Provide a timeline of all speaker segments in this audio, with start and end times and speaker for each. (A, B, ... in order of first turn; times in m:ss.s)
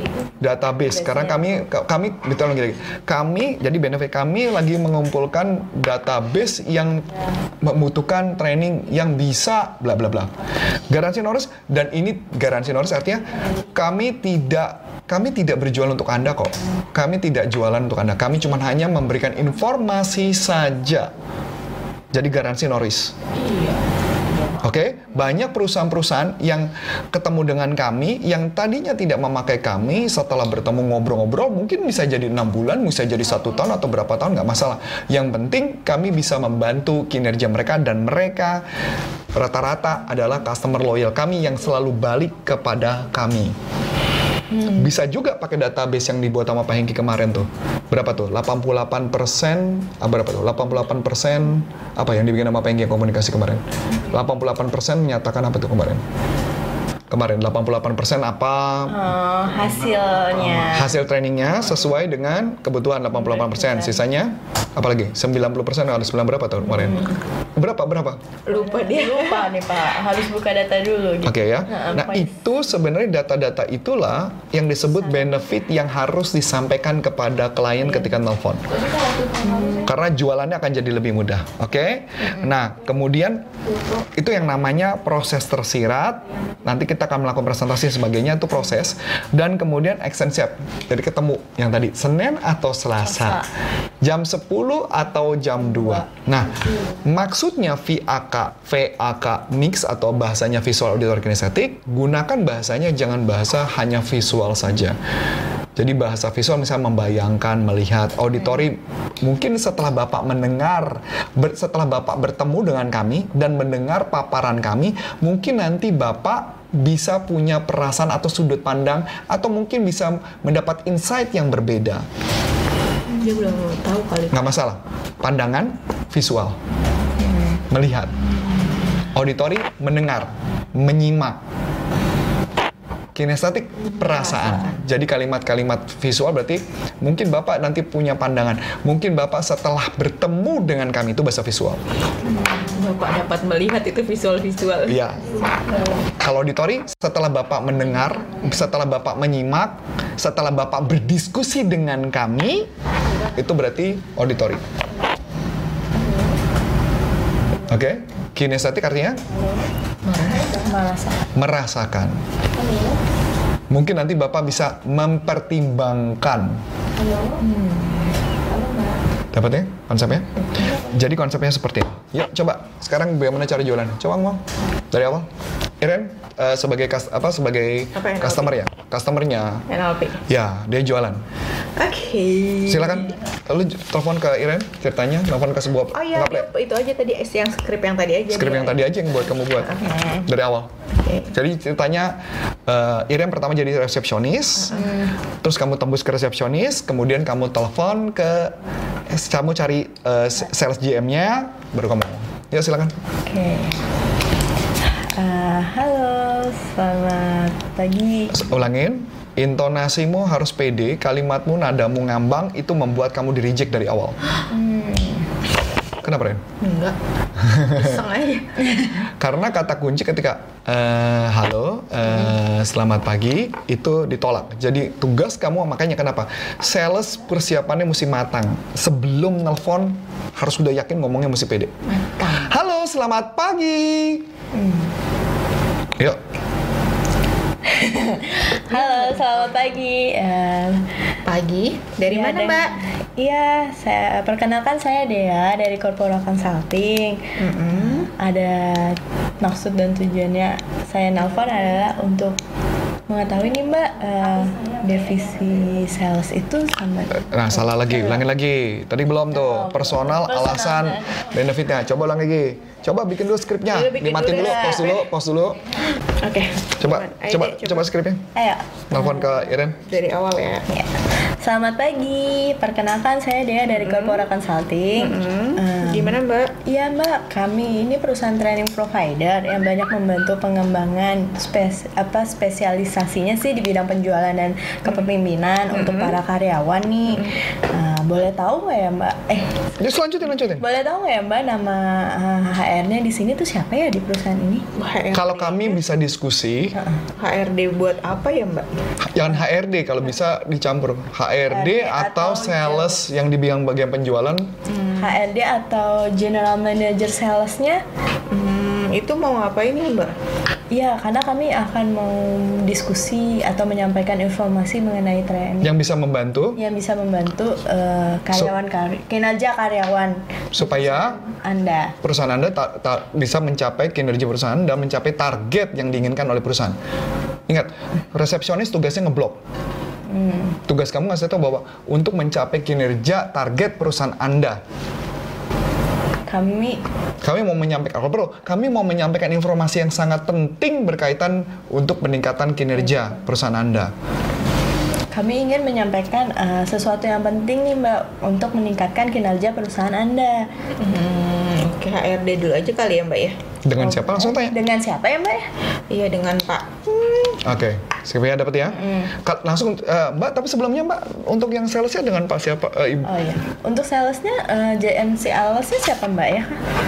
0:00.4-0:07.1 A
0:01.0-0:01.6 B
0:07.6-0:10.3 A
0:10.9-0:21.1 A
0:22.1-0:23.1 A
0:24.6-0:38.6 A
0:39.3-0:43.6 A
0:44.5-0:44.8 B
0:44.6-0:56.0 A
0:57.1-0:59.1 A
0:58.9-1:01.0 B
1:00.6-1:07.0 A
1:03.3-1:04.0 B
1:07.6-1:08.2 A
1:08.5-1:09.6 C
1:08.5-1:12.4 B
1:11.2-1:18.6 A
1:19.4-1:19.9 B
1:19.8-1:23.4 A
1:24.2-1:33.5 A
1:34.0-1:45.0 A
1:45.8-2:02.0 A
2:03.2-2:04.6 C
2:04.3-2:06.6 A
2:07.3-2:07.6 C
2:07.7-2:08.1 A
2:09.1-2:11.4 A
2:13.2-2:21.8 A
2:14.0-2:14.8 C
2:22.6-2:25.0 C
2:24.9-2:25.2 A
2:26.2-2:32.7 A
2:33.4-2:34.6 A
2:37.7-2:39.2 A
2:40.0-2:40.6 C
2:40.5-2:41.3 B
2:41.4-2:42.2 A
2:43.7-2:46.6 A
2:49.3-2:50.3 A
2:50.8-2:55.3 A
2:55.8-2:59.7 A
2:58.0-2:58.6 C
2:59.7-3:00.2 C
3:00.3-3:01.2 A
3:01.8-3:03.2 C
3:02.7-3:06.5 A
3:05.9-3:10.0 C
3:08.3-3:10.7 A
3:11.0-3:11.3 C
3:11.3-3:14.8 A
3:14.7-3:15.1 B
3:15.4-3:18.6 A
3:19.1-3:22.9 A
3:23.3-3:23.8 B
3:25.2-3:28.4 B
3:28.3-3:34.2 A
3:34.5-3:35.3 B
3:36.0-3:36.4 A
3:36.6-3:37.0 C
3:37.4-3:38.0 A
3:37.6-3:38.8 C
3:39.2-3:51.7 A
3:51.9-3:52.5 C
3:52.3-3:54.3 A
3:54.5-3:54.9 B
3:57.6-4:00.9 B
3:58.7-3:59.3 C
4:01.2-4:02.7 C
4:02.1-4:12.4 B
4:07.4-4:08.1 C
4:13.1-4:18.2 B
4:17.3-4:25.6 A
4:19.3-4:21.1 B
4:23.7-4:25.1 C
4:24.4-4:24.9 B
4:26.2-4:27.9 C
4:26.8-4:28.2 A
4:28.4-4:29.4 B
4:28.9-4:29.8 A
4:29.7-4:30.7 C
4:30.7-4:49.5 B
4:33.7-4:34.2 C
4:35.0-4:36.5 C
4:45.7-4:46.2 C
4:49.8-4:50.6 A
4:50.6-4:54.7 B
4:54.8-4:55.8 C
4:55.1-4:56.7 A
4:56.8-4:57.0 B
4:57.2-4:58.7 C
4:59.0-5:04.5 A
5:01.5-5:03.0 B
5:04.7-5:05.2 C
5:05.0-5:07.8 B
5:08.3-5:10.1 C
5:10.7-5:15.8 B
5:15.6-5:16.6 A
5:16.6-5:22.0 B
5:20.5-5:21.2 A
5:22.0-5:26.8 A
5:27.5-5:29.4 A
5:30.1-5:30.6 B
5:30.7-5:34.6 A
5:36.3-5:36.8 B
5:37.2-5:43.9 A
5:45.1-5:50.5 B
5:50.8-5:53.4 C
5:53.7-5:54.6 A
5:53.8-5:55.5 B
5:55.9-5:57.4 C
5:57.4-6:03.1 A
5:58.7-5:59.1 B
6:03.0-6:06.6 B